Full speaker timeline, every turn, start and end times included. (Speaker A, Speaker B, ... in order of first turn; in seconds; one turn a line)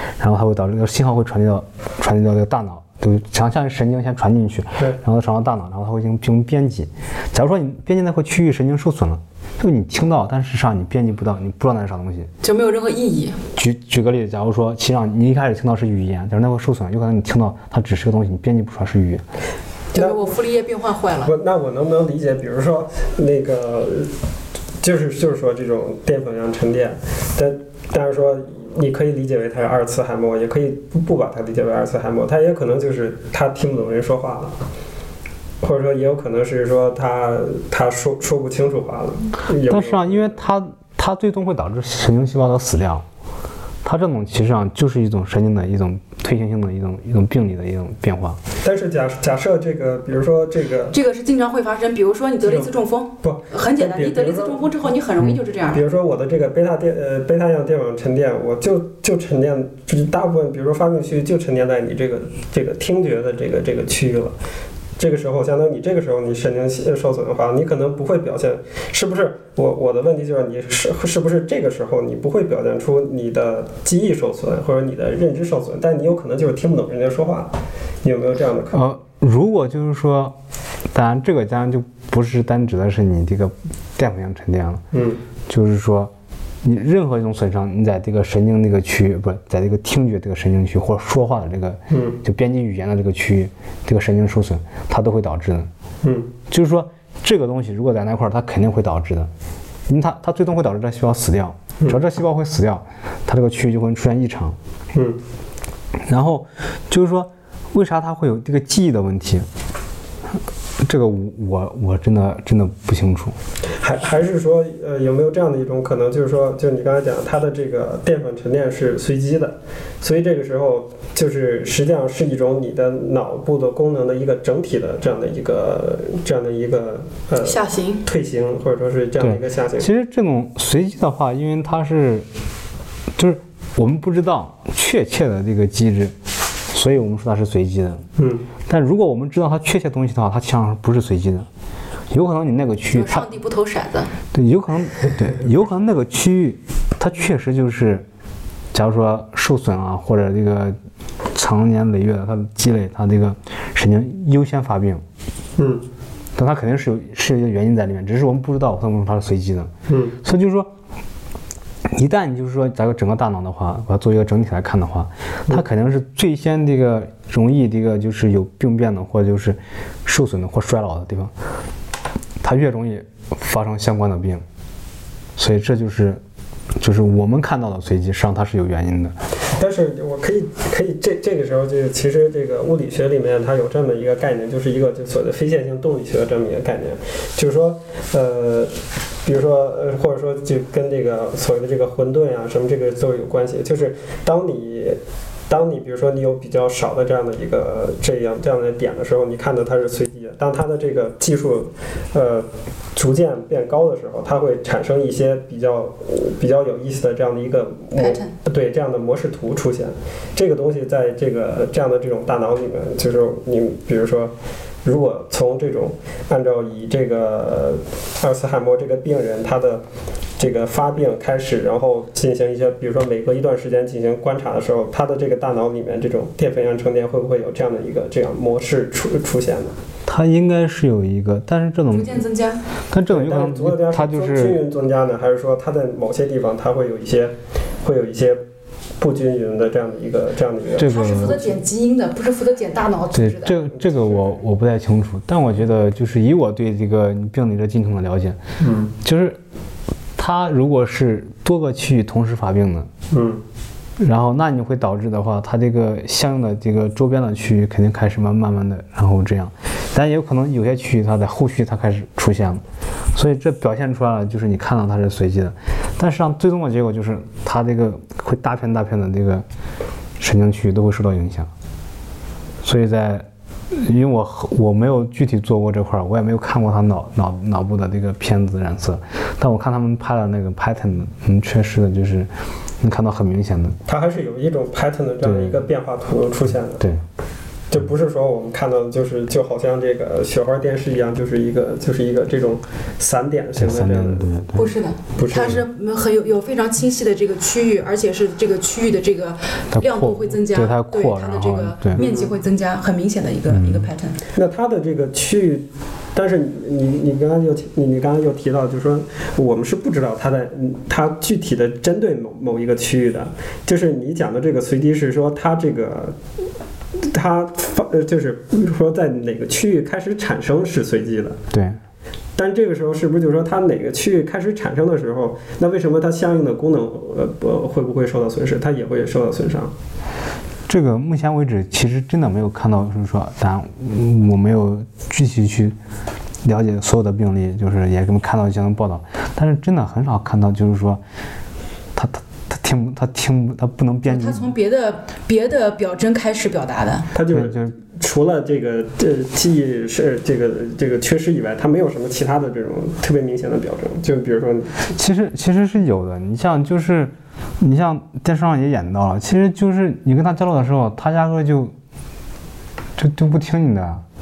Speaker A: 0.2-12.3
Speaker B: 12.4-13.4
Speaker A: 13.5-19.2
Speaker C: 19.9-20.3
Speaker B: 19.9-21.3
Speaker C: 21.2-24.1
Speaker C: 24.8-34.5
Speaker C: 35.6-40.3
Speaker A: 39.7-43.0
Speaker A: 43.8-48.4
Speaker C: 48.6-51.0
Speaker B: 50.9-55.8
Speaker C: 52.4-52.7
Speaker C: 53.2-54.6
Speaker C: 55.7-64.3
Speaker C: 65.0-77.5
Speaker C: 78.0-78.9
Speaker A: 78.7-80.3
Speaker A: 80.9-84.8
Speaker C: 84.9-85.2
Speaker A: 85.5-86.1
Speaker A: 86.6-95.7
Speaker C: 91.9-92.2
Speaker C: 96.0-96.3
Speaker A: 96.5-99.3
Speaker A: 99.9-104.6
Speaker C: 104.9-105.2
Speaker A: 106.1-109.5
Speaker A: 110.8-113.3
Speaker C: 113.8-129.9
Speaker B: 127.4-128.0
Speaker A: 129.2-132.3
Speaker A: 133.2-136.1
Speaker A: 136.7-138.1
Speaker C: 138.2-138.5
Speaker A: 138.7-141.5
Speaker A: 142.1-143.3
Speaker B: 142.9-144.1
Speaker A: 144.3-148.1
Speaker A: 148.7-150.8
Speaker A: 151.3-155.0
Speaker C: 155.6-155.8
Speaker A: 156.3-159.7
Speaker C: 159.9-160.2
Speaker A: 160.2-160.7
Speaker A: 161.9-171.3
Speaker A: 172.4-174.4
Speaker A: 175.4-176.2
Speaker A: 176.8-179.1
Speaker C: 179.6-188.7
Speaker C: 189.2-214.3
Speaker B: 207.9-208.3
Speaker C: 214.8-219.8
Speaker C: 220.4-229.8
Speaker A: 230.1-232.2
Speaker B: 231.9-232.6
Speaker A: 232.9-234.6
Speaker C: 233.1-238.4
Speaker C: 239.0-241.5
Speaker A: 240.8-241.4
Speaker B: 240.8-243.5
Speaker A: 243.1-248.4
Speaker C: 243.8-244.3
Speaker C: 248.6-248.9
Speaker A: 249.0-249.4
Speaker A: 250.2-252.9
Speaker C: 253.1-253.4
Speaker A: 254.0-262.6
Speaker A: 263.1-269.4
Speaker A: 270.2-271.5
Speaker A: 272.6-283.8
Speaker C: 283.9-286.8
Speaker A: 285.2-285.6
Speaker C: 287.7-294.3
Speaker A: 293.6-294.7
Speaker B: 294.5-304.2
Speaker C: 295.2-295.6
Speaker A: 299.7-302.0
Speaker C: 301.9-302.3
Speaker A: 303.5-303.9
Speaker C: 304.3-316.1
Speaker C: 317.0-321.4
Speaker A: 321.5-321.8
Speaker C: 322.4-329.7
Speaker A: 330.7-335.8
Speaker A: 336.4-341.0
Speaker A: 341.9-344.5
Speaker B: 344.0-347.1
Speaker C: 347.1-354.8
Speaker A: 347.3-347.7
Speaker A: 354.9-361.7
Speaker A: 363.0-364.0